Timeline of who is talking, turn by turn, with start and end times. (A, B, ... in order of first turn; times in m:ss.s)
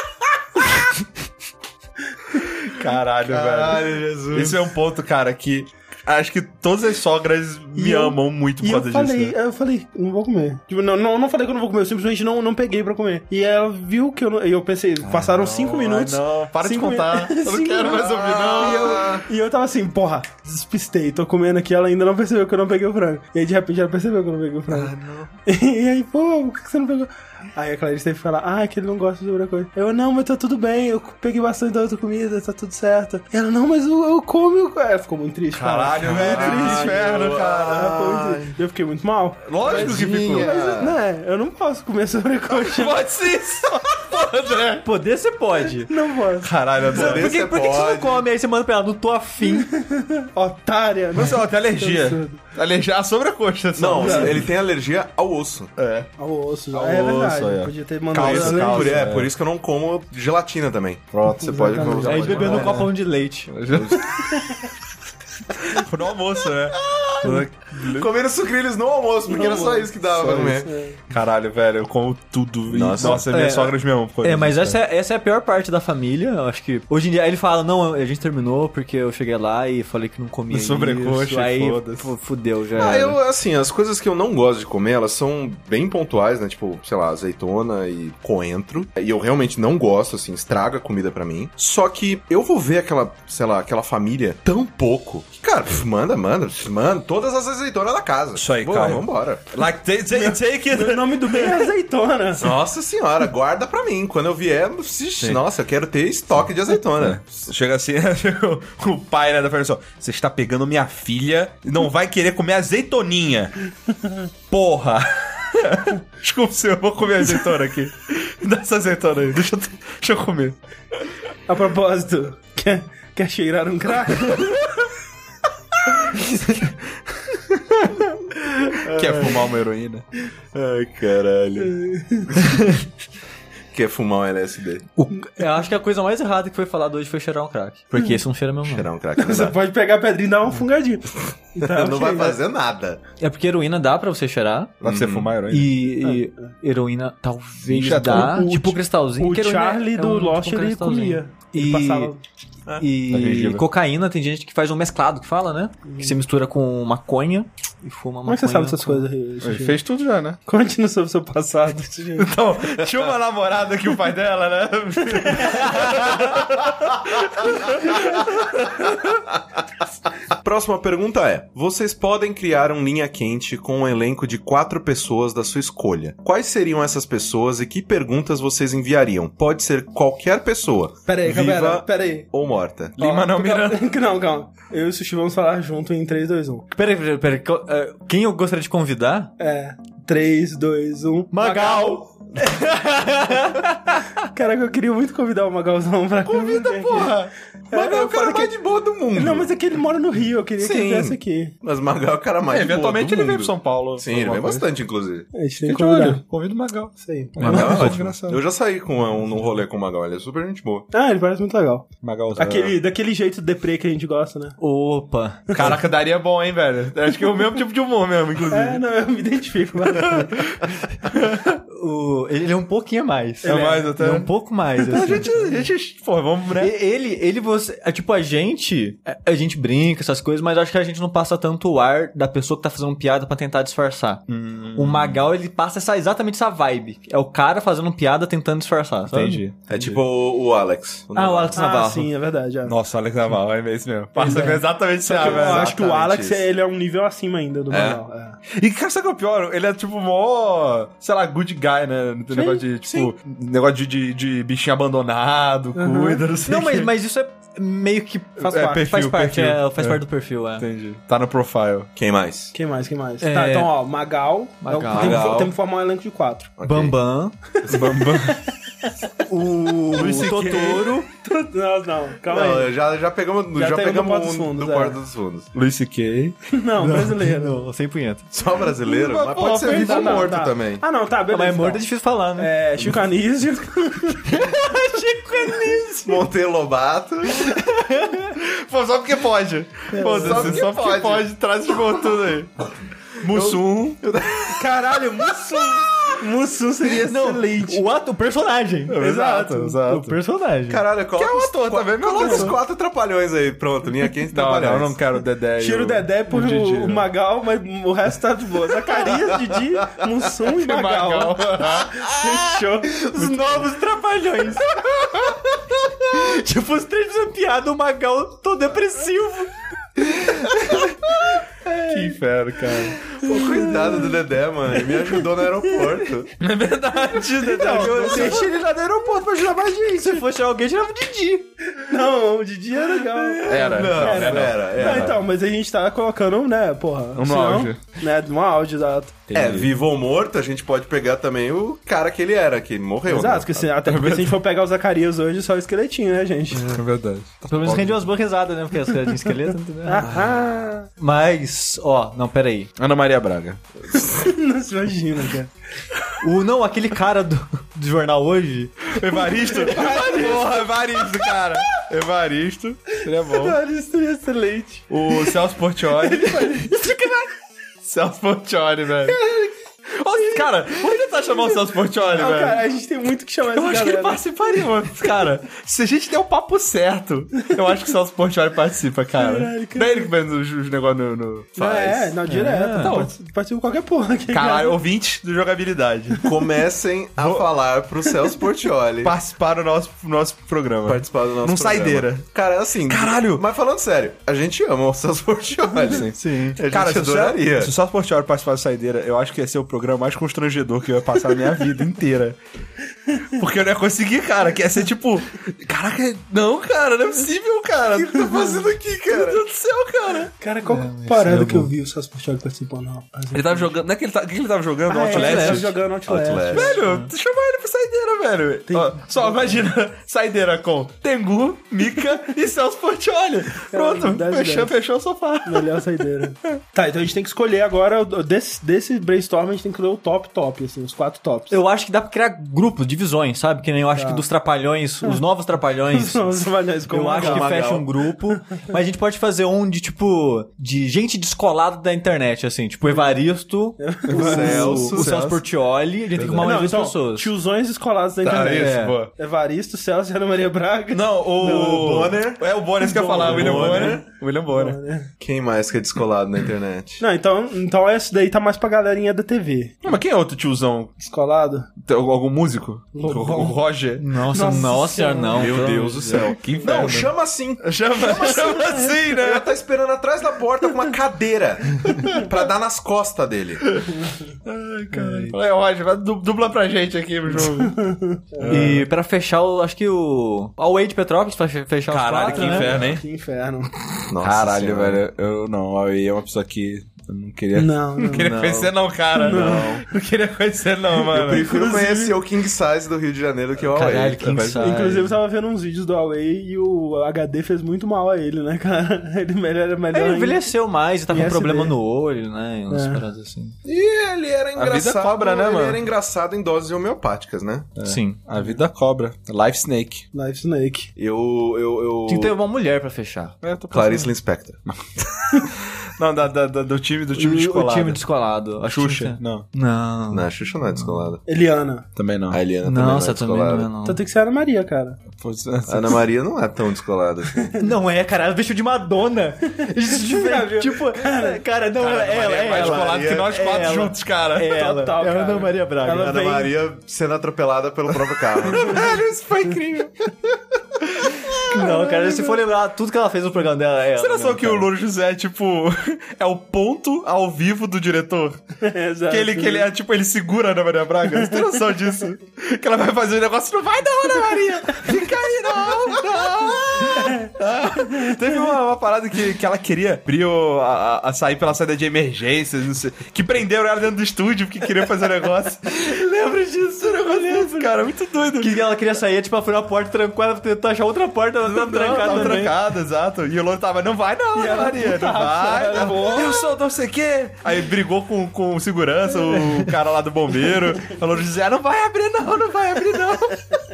0:02.6-0:09.3 A
0:03.2-0:04.7 B
0:07.7-0:24.9 C
0:15.0-0:19.2 A
0:18.0-0:19.2 B
0:24.7-0:25.2 A
0:25.4-0:37.1 C
0:35.5-0:37.9 A
0:36.0-0:38.5 B
0:37.6-0:43.0 C
0:39.4-0:40.5 A
0:39.6-0:41.0 B
0:42.5-0:44.9 A
0:44.8-0:45.9 D
0:45.8-0:46.5 C
0:46.4-0:47.3 A
0:46.8-0:49.7 D
0:46.9-0:48.2 B
0:49.4-0:52.4 C
0:51.1-0:54.5 A
0:53.8-0:55.7 B
0:53.9-0:54.4 C
0:55.8-0:56.1 A
0:56.2-0:59.1 C
0:56.7-0:59.3 A
0:58.1-1:02.8 B
1:01.1-1:02.9 A
1:01.3-1:02.8 C
1:02.0-1:03.5 D
1:03.5-1:04.1 A
1:04.1-1:04.6 C
1:05.6-1:08.1 A
1:06.7-1:10.7 B
1:09.2-1:09.9 C
1:10.0-1:14.8 A
1:10.6-1:11.0 C
1:12.7-1:13.3 B
1:13.0-1:23.2 D
1:20.5-1:22.1 A
1:22.7-1:39.5 B
1:38.4-1:41.7 A
1:40.1-1:42.5 C
1:42.4-1:47.4 B
1:46.9-1:53.5 A
1:53.9-1:54.2 C
1:54.5-2:00.6 A
2:01.5-2:04.5 C
2:08.8-2:09.4 B
2:08.9-2:10.0 A
2:10.5-2:11.7 B
2:11.6-2:12.3 C
2:13.7-2:14.9 B
2:15.0-2:18.9 D
2:18.6-2:19.6 B
2:19.2-2:22.4 C
2:21.6-2:23.0 B
2:23.2-2:24.7 D
2:24.8-2:25.3 B
2:24.8-2:25.7 A
2:25.5-2:32.1 D
2:26.0-2:26.3 C
2:27.7-2:28.4 A
2:27.9-2:32.2 C
2:32.8-2:39.1 D
2:33.1-2:33.6 A
2:35.9-2:36.2 C
2:38.2-2:39.8 C
2:39.4-2:40.4 A
2:40.4-2:42.3 C
2:42.2-2:49.1 A
2:45.2-2:45.8 C
2:50.3-3:03.0 B
3:01.1-3:02.3 C
3:03.0-3:03.9 A
3:03.0-3:06.7 C
3:06.8-3:09.3 D
3:09.4-3:12.0 C
3:11.3-3:14.0 D
3:14.3-3:18.5 C
3:16.2-3:17.3 A
3:17.7-3:19.5 B
3:19.1-3:21.5 C
3:20.6-3:25.3 B
3:22.5-3:24.7 A
3:25.3-3:26.2 C
3:25.6-3:28.4 A
3:27.0-3:27.9 C
3:27.4-3:30.9 B
3:27.4-3:27.9 D
3:30.9-3:34.6 C
3:32.0-3:32.8 A
3:34.6-3:35.7 D
3:35.5-3:38.8 A
3:38.5-3:40.5 C
3:39.9-3:41.6 A
3:41.7-3:45.5 D
3:43.4-3:43.9 C
3:43.4-3:44.3 A
3:44.8-3:46.7 A
3:46.6-3:54.2 D
3:54.3-3:55.3 A
3:54.7-3:59.4 D
3:59.1-4:00.0 A
3:59.7-4:01.6 B
4:01.1-4:02.1 D
4:01.5-4:02.8 C
4:02.6-4:05.7 A
4:04.2-4:08.4 C
4:05.1-4:06.4 B
4:07.7-4:08.0 B
4:08.5-4:16.9 A
4:12.3-4:12.7 C
4:15.7-4:16.2 C
4:16.4-4:20.7 D
4:18.4-4:18.8 C
4:18.4-4:20.0 A
4:20.6-4:21.9 A
4:22.0-4:22.5 B
4:22.5-4:26.5 C
4:23.2-4:23.7 D
4:24.6-4:25.4 D
4:24.9-4:25.5 B
4:26.6-4:27.0 B
4:26.6-4:27.4 D
4:27.6-4:28.0 B
4:27.7-4:28.4 A
4:27.7-4:28.4 C
4:29.3-4:31.1 D
4:29.9-4:32.7 C
4:29.9-4:30.9 A
4:32.3-4:35.5 B
4:33.5-4:35.0 C
4:35.5-4:36.4 A
4:36.5-4:37.6 C
4:36.8-4:38.2 D
4:38.3-4:40.8 B
4:38.8-4:40.3 A
4:39.5-4:41.8 C
4:41.3-4:42.5 D
4:42.4-4:44.6 C
4:44.2-4:46.2 D
4:46.0-4:47.6 B
4:47.3-4:48.3 D
4:48.3-4:52.5 A
4:49.9-4:50.6 D
4:50.1-4:51.3 B
4:53.2-4:54.0 A
4:53.2-4:54.7 B
4:54.5-4:57.8 C
4:57.0-4:59.0 D
4:58.9-5:00.2 A
4:59.0-4:59.8 C
4:59.8-5:00.8 D
5:00.7-5:05.0 B
5:01.1-5:02.6 A
5:02.2-5:02.6 C
5:04.3-5:07.1 A
5:05.6-5:13.6 C
5:10.4-5:12.0 A
5:13.0-5:20.9 D
5:21.6-5:22.1 C
5:21.9-5:23.0 A
5:23.2-5:26.3 B
5:23.3-5:24.0 C
5:26.4-5:28.5 A
5:27.2-5:29.5 C
5:27.5-5:31.5 D
5:31.8-5:39.2 C
5:33.4-5:35.2 A
5:33.5-5:35.2 B
5:37.1-5:37.8 A
5:39.3-5:39.7 A
5:39.3-5:43.7 B
5:43.1-5:46.8 C
5:43.8-5:44.4 A
5:46.5-5:48.1 A
5:47.4-5:50.1 D
5:49.8-5:50.9 C
5:50.0-5:50.5 B
5:51.0-5:52.7 D
5:52.8-5:53.6 A
5:53.9-5:55.5 C
5:56.2-5:59.0 D
5:58.9-6:03.6 A
5:59.4-6:01.3 C
6:03.2-6:07.2 C
6:04.9-6:06.7 A
6:07.8-6:09.2 A
6:09.0-6:09.5 C
6:10.0-6:12.6 A
6:10.2-6:14.2 C
6:13.4-6:21.6 A
6:19.2-6:20.1 C
6:21.6-6:24.8 C
6:21.6-6:22.1 B
6:22.2-6:23.0 D
6:22.8-6:23.1 A
6:24.3-6:26.2 A
6:26.2-6:29.1 B
6:27.2-6:27.5 A
6:29.0-6:32.3 A
6:30.8-6:37.7 B
6:32.9-6:33.4 A
6:35.8-6:42.4 A
6:36.0-6:36.6 D
6:43.4-6:50.3 A
6:47.9-6:49.4 B
6:50.4-6:53.8 C
6:50.6-6:51.7 D
6:53.3-6:55.7 A
6:54.9-6:56.8 C
6:55.0-6:55.7 D
6:56.0-6:56.8 B
6:56.5-7:05.8 A
6:58.7-6:59.5 C
7:03.7-7:04.7 C
7:05.4-7:11.6 C
7:11.5-7:27.3 D
7:13.9-7:14.2 C
7:15.9-7:17.7 C
7:17.1-7:17.9 B
7:23.8-7:24.9 C
7:24.1-7:25.2 B
7:24.1-7:25.4 A
7:26.2-7:26.6 A
7:26.4-7:32.1 C
7:28.2-7:29.1 A
7:28.5-7:29.0 D
7:30.9-7:34.8 A
7:31.4-7:32.4 B
7:32.8-7:35.1 C
7:33.0-7:34.0 B
7:35.2-7:37.0 B
7:37.0-7:39.8 C
7:39.8-7:40.9 A
7:41.0-7:41.7 C
7:41.8-7:44.0 A
7:42.9-7:43.6 C
7:44.0-7:46.4 D
7:44.3-7:45.6 C
7:45.3-7:53.6 B
7:46.2-7:49.5 A
7:48.1-7:48.9 C
7:51.9-7:52.3 A
7:53.6-7:53.9 A
7:53.9-7:54.3 C
7:54.4-7:57.8 A
7:57.4-7:58.8 C
7:58.4-7:58.9 A
7:58.5-8:02.8 D
8:01.9-8:03.0 A
8:02.3-8:03.9 C
8:04.1-8:05.0 B
8:04.2-8:11.5 A
8:07.5-8:08.3 C
8:08.0-8:09.6 D
8:09.1-8:09.8 C
8:11.1-8:14.3 B
8:11.2-8:12.2 C
8:13.6-8:15.0 A
8:13.7-8:15.1 D
8:14.6-8:20.5 C
8:19.9-8:23.6 D
8:21.1-8:21.7 C
8:22.7-8:23.0 C
8:23.6-8:27.7 B
8:24.6-8:25.8 A
8:27.8-8:30.0 A
8:27.8-8:28.2 D
8:30.1-8:30.9 C
8:31.0-8:32.3 B
8:32.1-8:33.4 D
8:33.4-8:34.1 A
8:33.7-8:34.6 B
8:34.6-8:38.0 A
8:37.2-8:40.3 D
8:38.6-8:39.4 A
8:40.1-8:41.2 B
8:41.2-8:41.9 C
8:42.0-8:42.4 A
8:42.3-8:43.7 B
8:42.6-8:44.0 D
8:43.8-8:45.0 C
8:45.1-8:46.0 A
8:45.7-8:47.5 B
8:47.3-8:47.7 C
8:47.6-8:56.2 D
8:49.8-8:51.4 C
8:51.8-8:54.5 A
8:52.5-8:53.3 B
8:54.5-8:56.5 C
8:55.9-8:59.0 B
8:58.4-9:00.0 A
9:00.8-9:02.1 A
9:01.4-9:04.7 D
9:01.5-9:02.3 C
9:04.0-9:08.4 A
9:08.6-9:09.7 C
9:09.1-9:26.0 A
9:11.1-9:11.6 C
9:16.9-9:17.3 C
9:25.9-9:27.7 C
9:26.8-9:28.5 A
9:28.4-9:32.5 D
9:31.4-9:43.6 A
9:32.0-9:32.5 C
9:34.3-9:36.5 C
9:39.4-9:39.7 D